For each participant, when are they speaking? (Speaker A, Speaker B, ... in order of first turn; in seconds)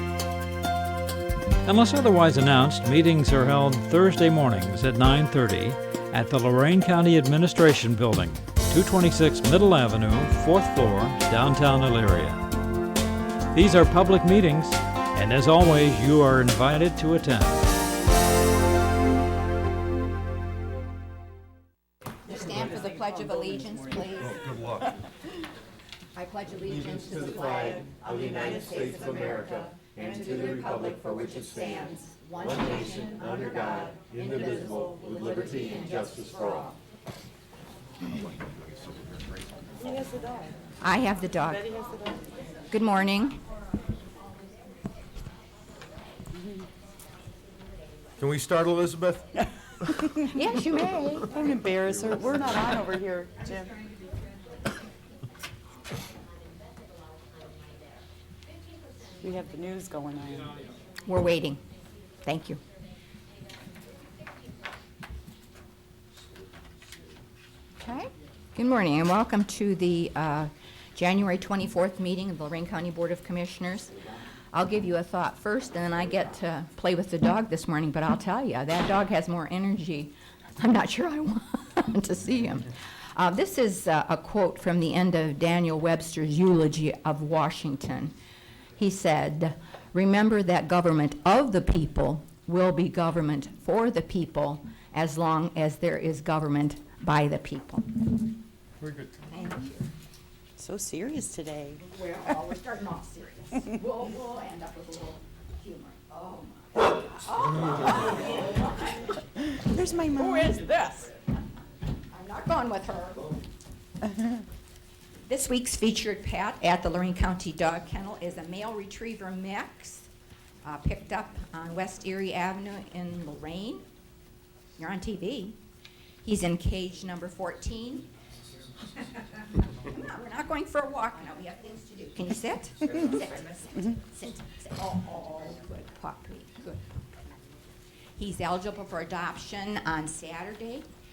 Speaker A: 1.6-12.4, 13.5-17.6
Speaker B: 22.2-24.6, 26.1-36.8, 40.8-41.8, 42.7-43.4, 50.1-51.3, 61.0-61.6, 62.2-62.6, 67.8-88.1, 88.8-97.8, 99.3-99.9, 101.8-109.2, 110.2-111.2, 112.1-113.3, 115.2-120.1, 120.6-123.8, 124.8-125.6, 126.2-128.1, 129.8-137.1, 138.1-140.8
Speaker C: 22.9-24.1, 39.8-40.5, 41.7-42.3, 51.3-53.7, 59.2-60.6, 100.6-101.8, 109.5-111.0
Speaker D: 24.2-25.0, 26.7-31.9, 32.4-36.7, 48.2-49.4, 98.8-99.2